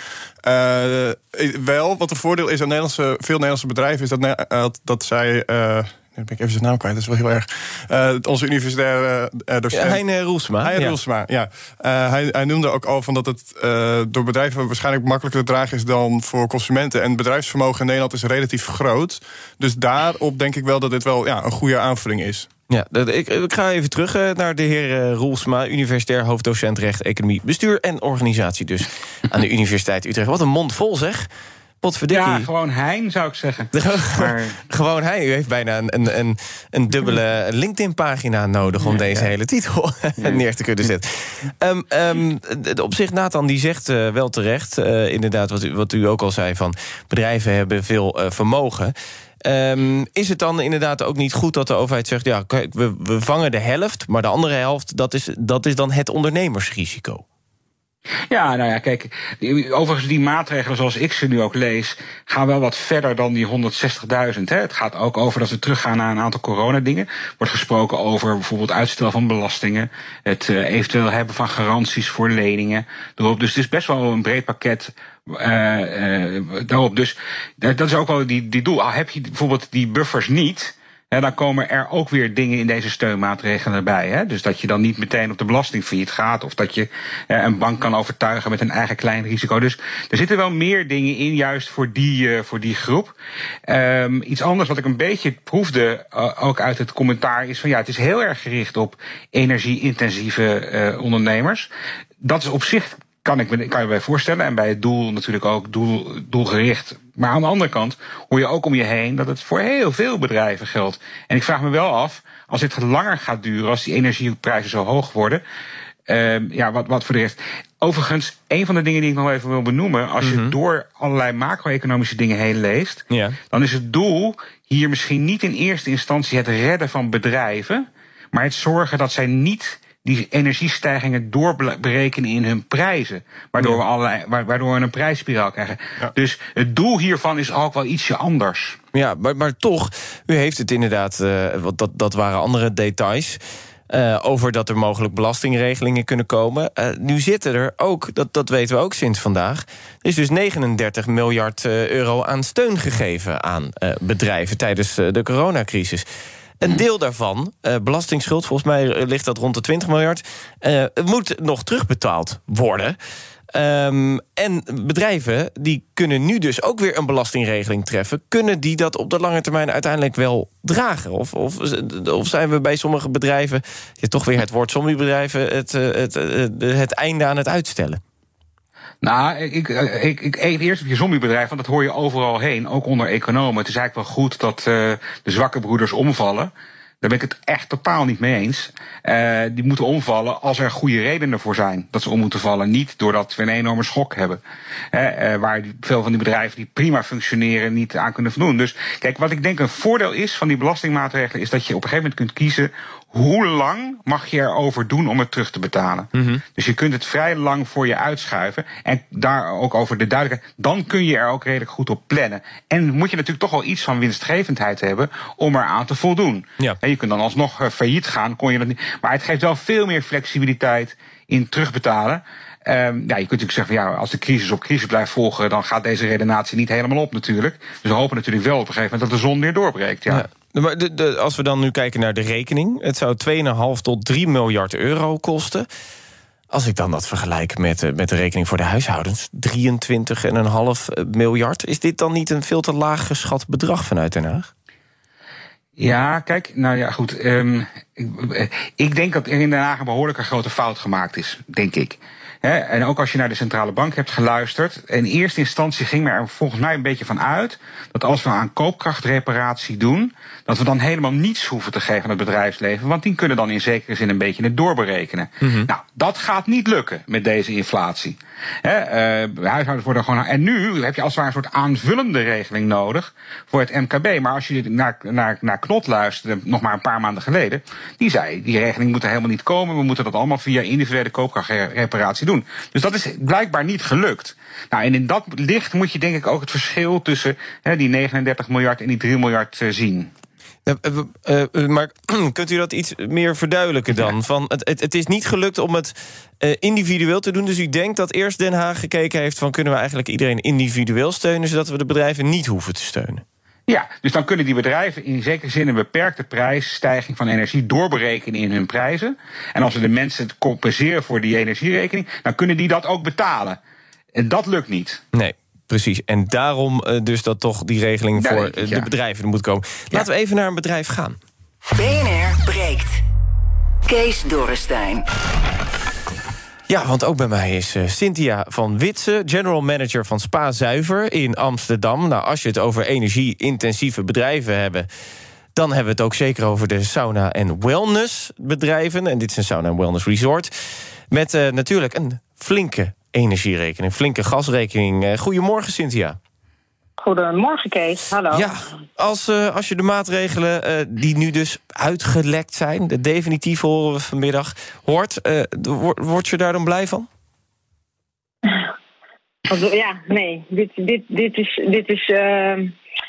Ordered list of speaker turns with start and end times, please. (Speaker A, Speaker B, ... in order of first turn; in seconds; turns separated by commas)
Speaker A: 0.4-10.0, Speaker B: 9.7-11.0, Speaker A: 10.6-22.5, Speaker B: 22.7-31.3, Speaker B: 31.8-32.5, Speaker C: 32.1-34.6, Speaker B: 33.7-57.2, Speaker C: 58.3-93.1, Speaker C: 93.7-101.7, Speaker C: 102.2-115.4, Speaker C: 116.1-138.8, Speaker B: 120.2-120.6, Speaker B: 123.1-123.4, Speaker B: 138.9-156.1, Speaker B: 156.6-163.0, Speaker B: 163.5-178.0, Speaker C: 179.0-186.5, Speaker C: 187.0-194.4, Speaker C: 194.9-230.3, Speaker B: 206.2-206.4, Speaker B: 230.1-235.7, Speaker B: 236.5-244.5, Speaker C: 245.8-290.1, Speaker B: 265.4-265.7, Speaker B: 290.7-303.2, Speaker C: 303.7-313.6, Speaker C: 314.1-315.0, Speaker B: 315.1-321.2, Speaker C: 318.2-318.9, Speaker D: 321.8-323.0, Speaker D: 323.9-325.1, Speaker B: 326.7-334.9, Speaker B: 335.6-346.2, Speaker E: 347.0-348.5, Speaker B: 348.3-357.1, Speaker E: 358.5-358.7, Speaker E: 359.5-362.7